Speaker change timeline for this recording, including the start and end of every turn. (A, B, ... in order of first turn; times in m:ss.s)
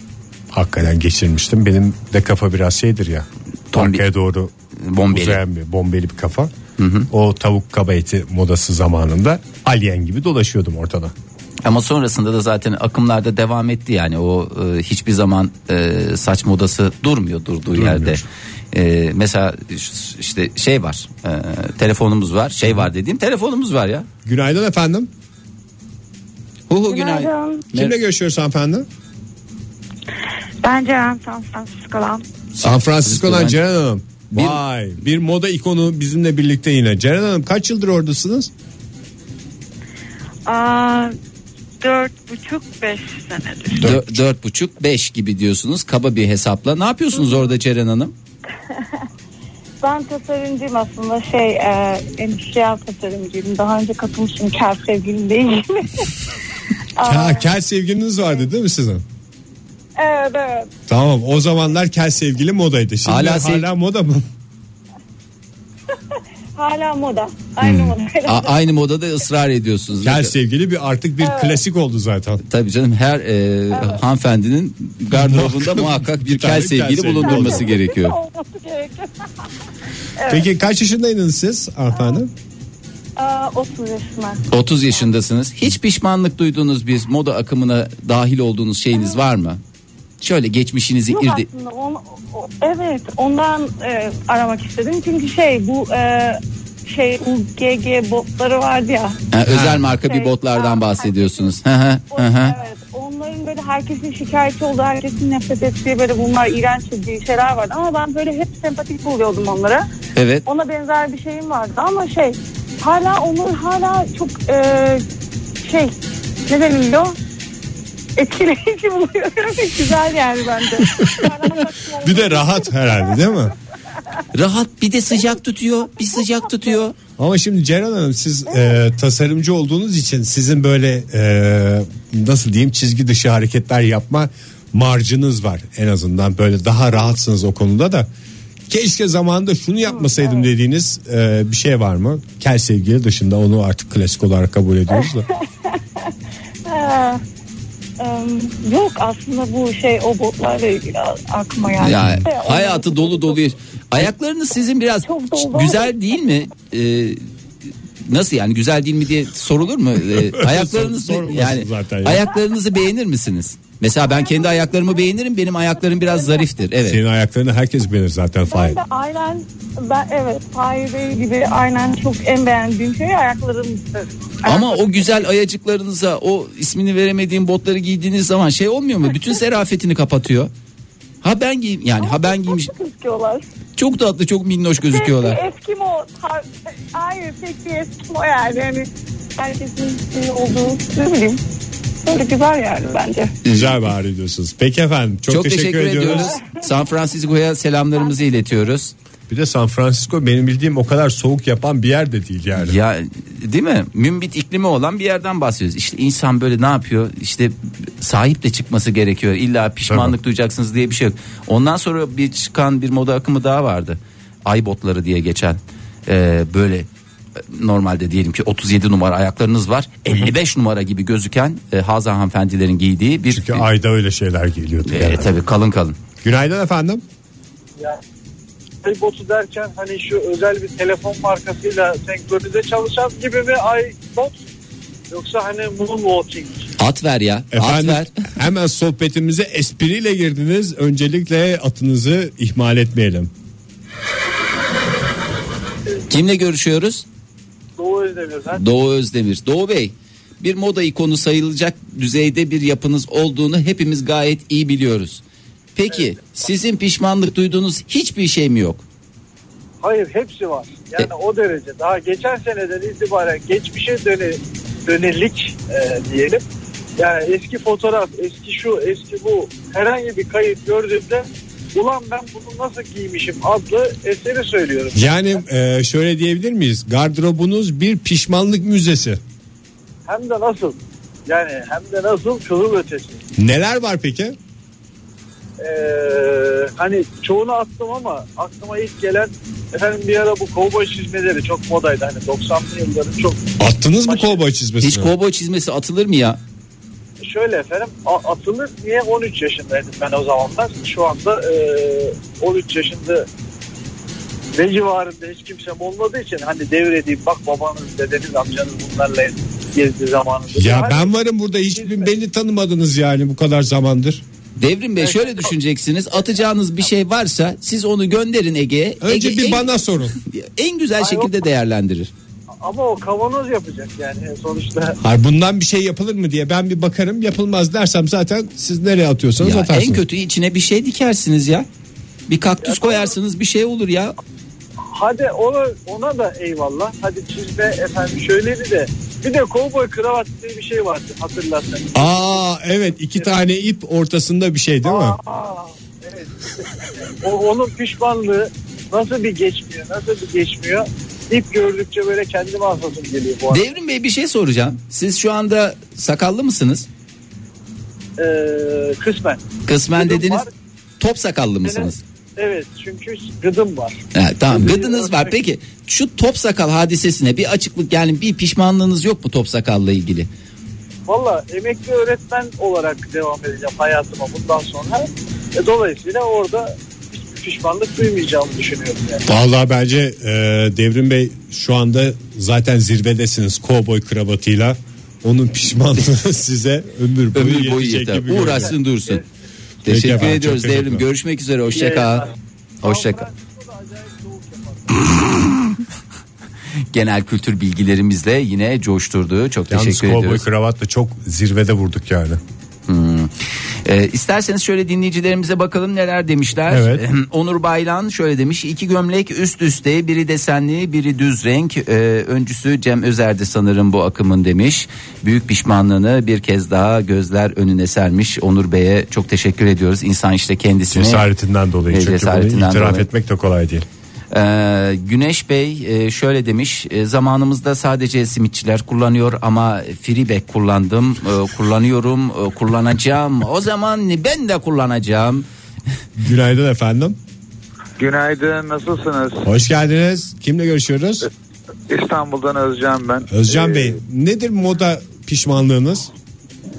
0:00.5-0:04.5 A
0:03.7-0:04.0 B
0:04.8-0:05.4 B
0:05.1-0:06.5 A
0:06.8-0:07.1 B
0:07.1-0:11.1 A
0:11.6-0:24.1 B
0:17.7-0:18.2 A
0:24.2-0:25.1 A
0:26.7-0:27.9 B
0:26.9-0:27.6 C
0:27.7-0:28.8 A
0:30.6-0:32.2 C
0:32.6-0:38.5 A
0:32.6-0:33.6 B
0:34.3-0:34.6 B
0:40.4-0:41.1 C
0:41.8-0:43.8 C
0:43.7-0:44.2 A
0:43.8-0:48.1 B
0:47.1-0:47.5 C
0:49.8-0:56.1 C
0:57.0-0:57.5 C
0:57.0-0:59.0 A
1:00.0-1:00.7 C
1:00.9-1:04.2 A
1:03.0-1:03.7 B
1:06.6-1:08.5 C
1:07.6-1:08.0 A
1:08.2-1:10.3 B
1:10.0-1:12.4 A
1:11.2-1:11.6 C
1:12.5-1:18.2 B
1:13.7-1:14.0 C
1:15.1-1:17.7 A
1:17.2-1:19.2 C
1:20.2-1:20.4 C
1:20.3-1:22.3 A
1:23.2-1:24.4 C
1:24.5-1:29.6 B
1:30.2-1:31.4 B
1:31.1-1:39.2 C
1:39.3-1:42.5 B
1:39.4-1:39.8 A
1:40.0-1:41.5 C
1:42.1-1:49.8 C
1:50.2-1:50.4 B
1:50.4-1:55.0 C
1:55.6-1:55.9 C
1:56.5-1:57.2 C
1:58.2-2:03.2 C
2:01.0-2:03.5 A
2:04.3-2:06.9 B
2:07.2-2:18.1 A
2:18.7-2:25.3 A
2:19.9-2:20.4 C
2:26.7-2:27.2 C
2:28.0-2:33.4 C
2:31.8-2:37.2 B
2:35.0-2:35.9 C
2:38.0-2:47.0 B
2:40.1-2:42.3 A
2:44.2-2:44.5 C
2:46.8-2:48.8 A
2:48.5-2:54.8 C
2:54.4-3:00.5 B
3:01.2-3:02.7 B
3:02.0-3:03.4 C
3:03.8-3:05.4 B
3:04.9-3:11.4 C
3:12.0-3:13.4 C
3:13.4-3:13.7 B
3:13.5-3:16.4 A
3:15.3-3:18.9 B
3:19.3-3:22.8 A
3:22.6-3:36.9 B
3:29.9-3:30.1 A
3:37.4-3:43.6 B
3:40.1-3:40.3 A
3:43.3-3:45.4 A
3:44.9-3:46.0 B
3:46.2-3:47.0 A
3:48.8-3:54.4 D
3:55.1-3:56.7 D
3:56.8-3:58.1 B
3:57.5-4:03.3 A
4:06.1-4:07.0 B
4:07.8-4:08.6 D
4:08.5-4:15.2 B
4:15.7-4:18.8 B
4:19.8-4:26.4 D
4:27.0-4:35.2 D
4:34.9-4:39.2 A
4:40.1-4:43.2 D
4:43.4-4:44.4 A
4:45.6-4:53.5 D
4:53.6-4:55.1 A
4:54.0-4:54.4 D
4:54.8-4:56.4 B
4:57.2-5:03.2 D
5:04.5-5:11.1 D
5:10.5-5:14.2 A
5:11.7-5:12.1 D
5:14.6-5:22.1 B
5:15.0-5:15.4 D
5:19.0-5:20.1 A
5:21.0-5:21.3 D
5:22.6-5:25.0 D
5:25.0-5:30.0 A
5:29.4-5:31.6 B
5:32.3-5:34.1 B
5:32.6-5:33.1 D
5:34.9-5:42.4 D
5:41.9-5:45.2 A
5:44.8-5:53.7 D
5:53.5-5:56.9 B
5:58.2-5:59.4 D
5:59.6-6:00.4 B
5:59.9-6:00.5 D
6:01.0-6:02.0 B
6:01.6-6:05.4 D
6:04.1-6:10.3 B
6:11.1-6:19.2 D
6:19.2-6:28.8 A
6:27.3-6:29.2 B
6:29.8-6:32.3 B
6:29.8-6:31.0 A
6:31.7-6:32.3 D
6:32.8-6:33.2 B
6:32.8-6:35.1 D
6:35.2-6:35.8 B
6:36.9-6:40.4 B
6:39.7-6:42.4 A
6:42.9-6:43.3 B
6:43.8-7:01.2 B
6:46.7-6:47.0 A
7:00.9-7:03.8 A
7:01.9-7:03.1 B
7:04.3-7:15.4 B
7:16.2-7:17.2 A
7:18.0-7:19.4 E
7:19.4-7:21.3 A
7:21.9-7:23.9 E
7:23.3-7:26.1 A